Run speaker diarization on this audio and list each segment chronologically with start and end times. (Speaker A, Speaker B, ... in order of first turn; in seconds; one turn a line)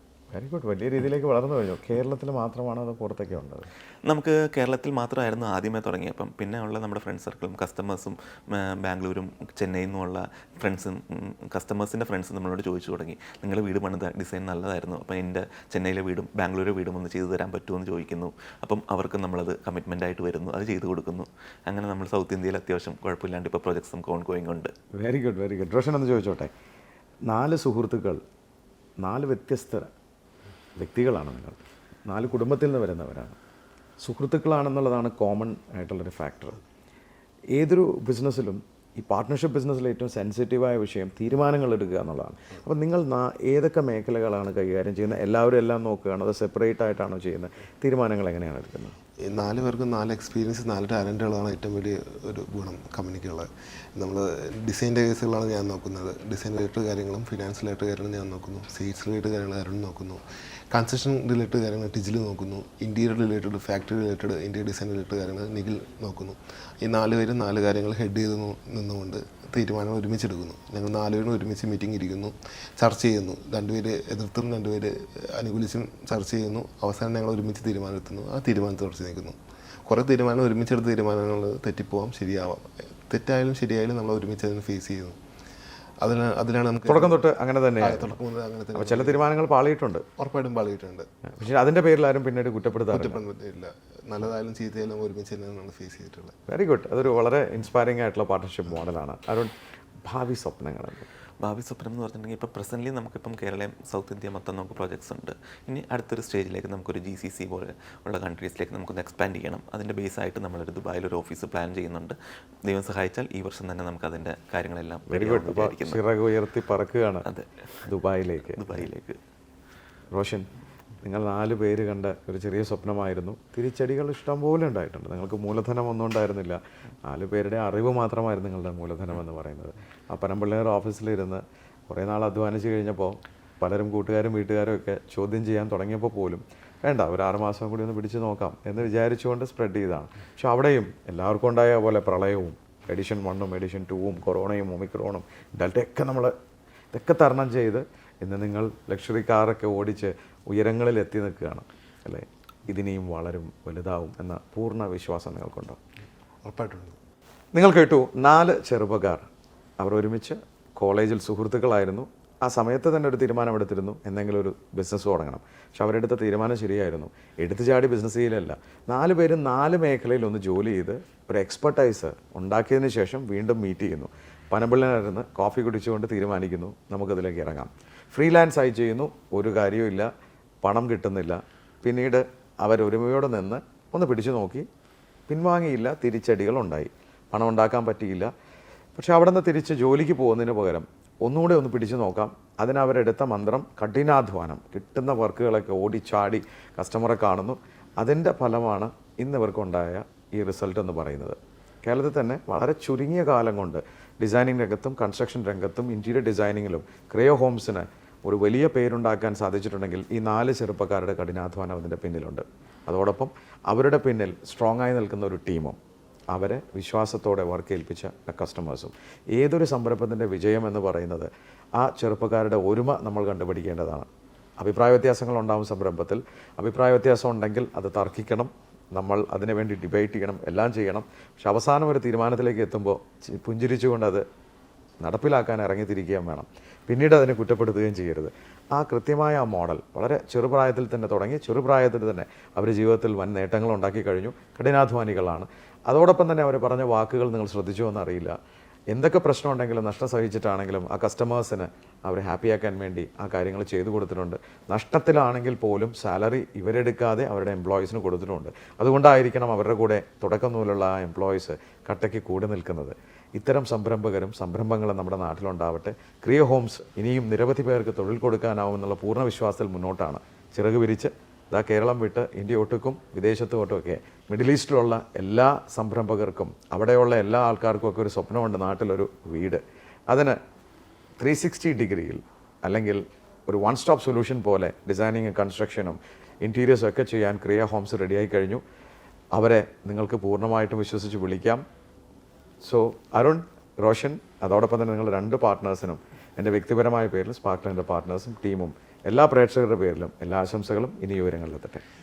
Speaker A: 0.3-3.7
Speaker B: 4.1-24.7
Speaker A: 24.9-26.5
Speaker A: 27.3-28.2
Speaker A: 29.0-29.9
Speaker A: 30.8-33.4
Speaker A: 34.0-36.6
Speaker A: 37.5-49.0
Speaker C: 49.2-85.2
Speaker C: 86.0-87.2
Speaker A: 86.9-88.1
Speaker C: 87.8-89.2
Speaker A: 88.7-90.0
Speaker C: 90.2-91.1
Speaker A: 91.3-93.2
Speaker C: 92.9-96.4
Speaker A: 96.5-99.5
Speaker A: 100.0-101.1
Speaker B: 101.4-116.0
Speaker A: 115.1-117.2
Speaker B: 117.2-117.9
Speaker A: 117.9-118.7
Speaker B: 118.5-119.2
Speaker A: 120.1-120.5
Speaker A: 121.0-146.3
Speaker A: 146.9-155.8
Speaker C: 156.4-157.0
Speaker A: 157.5-159.2
Speaker A: 159.8-180.1
Speaker A: 180.6-184.7
Speaker A: 185.3-188.3
Speaker A: 188.9-215.8
Speaker A: 216.3-224.1
Speaker A: 224.6-234.2
Speaker A: 235.0-248.4
Speaker A: 248.9-280.4
Speaker A: 281.2-288.6
Speaker A: 289.3-291.6
Speaker A: 292.6-301.8